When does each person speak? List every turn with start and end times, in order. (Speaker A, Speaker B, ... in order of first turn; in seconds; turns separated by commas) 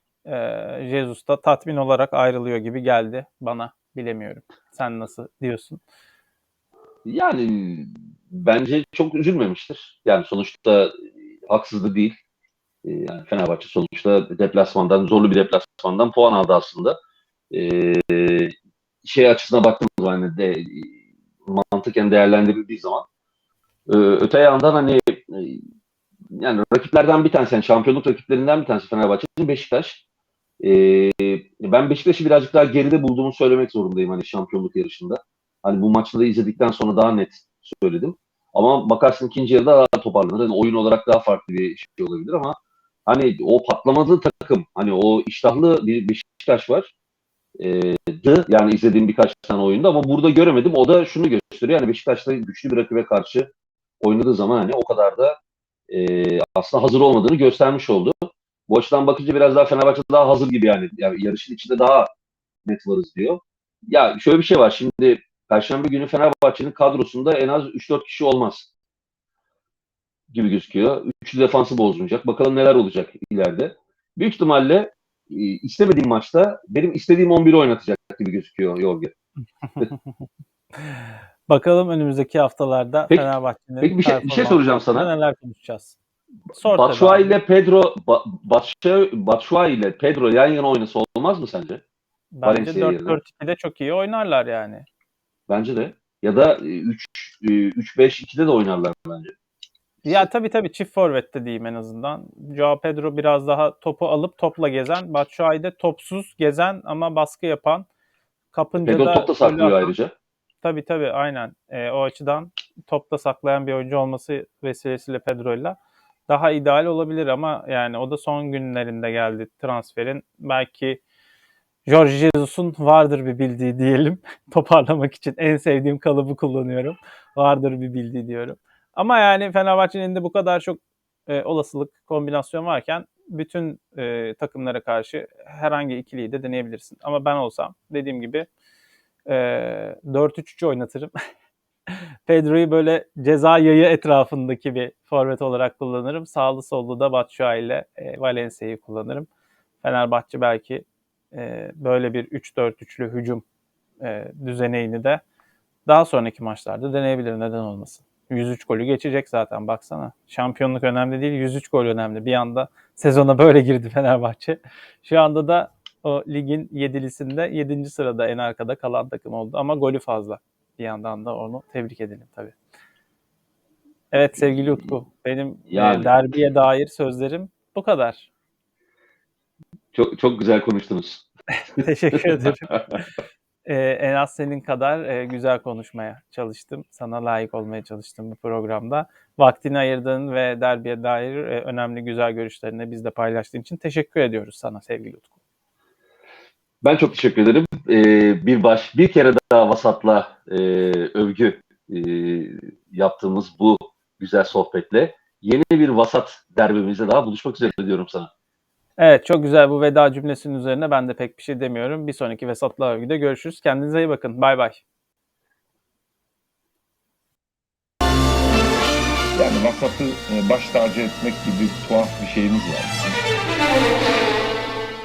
Speaker A: 0.2-5.8, Speaker B: 7.0-10.9, Speaker B: 11.5-12.2, Speaker B: 12.8-17.0, Speaker B: 17.5-18.5, Speaker B: 19.0-23.1, Speaker B: 23.9-25.6, Speaker B: 26.3-30.0, Speaker B: 30.6-42.5, Speaker B: 43.1-46.9, Speaker B: 47.6-53.5, Speaker B: 54.0-55.4, Speaker B: 55.9-62.1, Speaker B: 62.6-68.7, Speaker B: 70.3-79.1, Speaker A: 80.8-86.0, Speaker B: 83.8-85.1, Speaker A: 86.5-87.3, Speaker B: 86.6-91.8, Speaker A: 92.3-94.8, Speaker B: 92.4-93.2, Speaker B: 95.5-99.3, Speaker A: 100.0-107.8, Speaker A: 108.5-109.9, Speaker B: 108.8-110.1, Speaker A: 110.6-115.8, Speaker A: 116.3-121.0, Speaker A: 121.8-138.5, Speaker A: 139.3-141.1, Speaker A: 141.9-149.3, Speaker A: 149.8-153.4, Speaker A: 154.0-155.2, Speaker A: 155.8-172.5, Speaker A: 174.1-178.3, Speaker B: 174.4-174.9, Speaker B: 175.7-176.1, Speaker B: 179.9-181.3, Speaker A: 181.5-183.0, Speaker B: 181.8-182.9, Speaker A: 183.7-195.3, Speaker B: 196.8-208.3, Speaker A: 209.0-214.8, Speaker C: 219.3-223.2